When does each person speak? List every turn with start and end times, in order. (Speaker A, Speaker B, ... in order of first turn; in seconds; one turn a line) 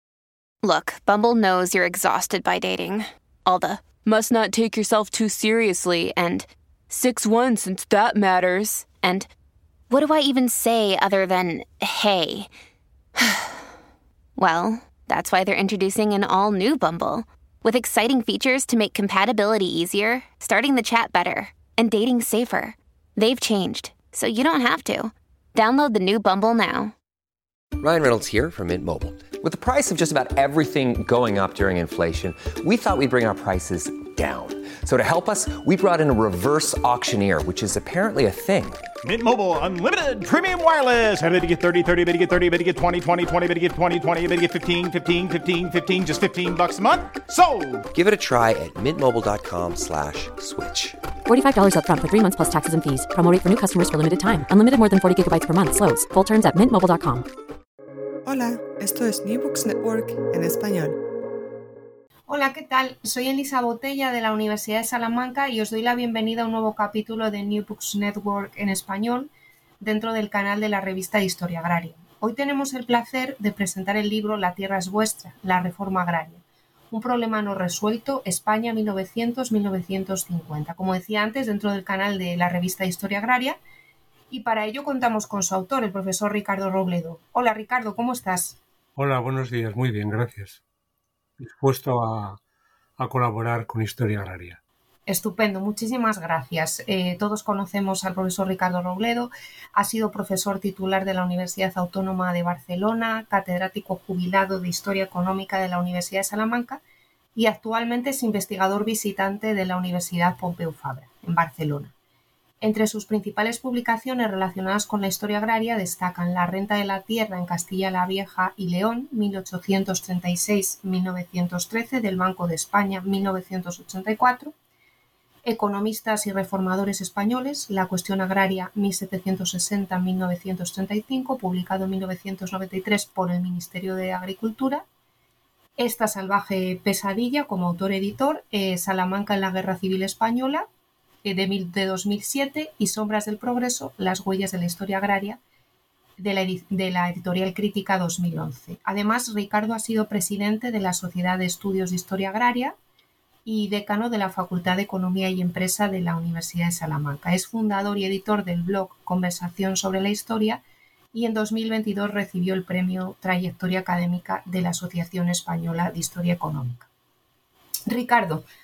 Speaker A: 0.6-9.3
Speaker A: 9.9-12.5
Speaker A: 13.2-13.6
Speaker A: 14.4-26.9
Speaker B: 27.8-38.9
Speaker C: 39.0-47.9
Speaker B: 47.9-51.0
Speaker D: 51.3-57.3
Speaker E: 58.2-61.0
Speaker F: 62.3-69.3
Speaker F: 69.8-83.6
Speaker F: 84.3-88.6
Speaker G: 89.0-90.6
Speaker G: 91.4-92.4
Speaker G: 93.0-94.6
Speaker F: 95.1-106.8
Speaker F: 107.3-111.9
Speaker F: 112.6-124.5
Speaker F: 125.4-134.8
Speaker F: 135.8-140.7
Speaker F: 141.2-145.4
Speaker F: 146.2-152.8
Speaker F: 153.5-160.6
Speaker F: 161.1-166.9
Speaker F: 167.9-168.4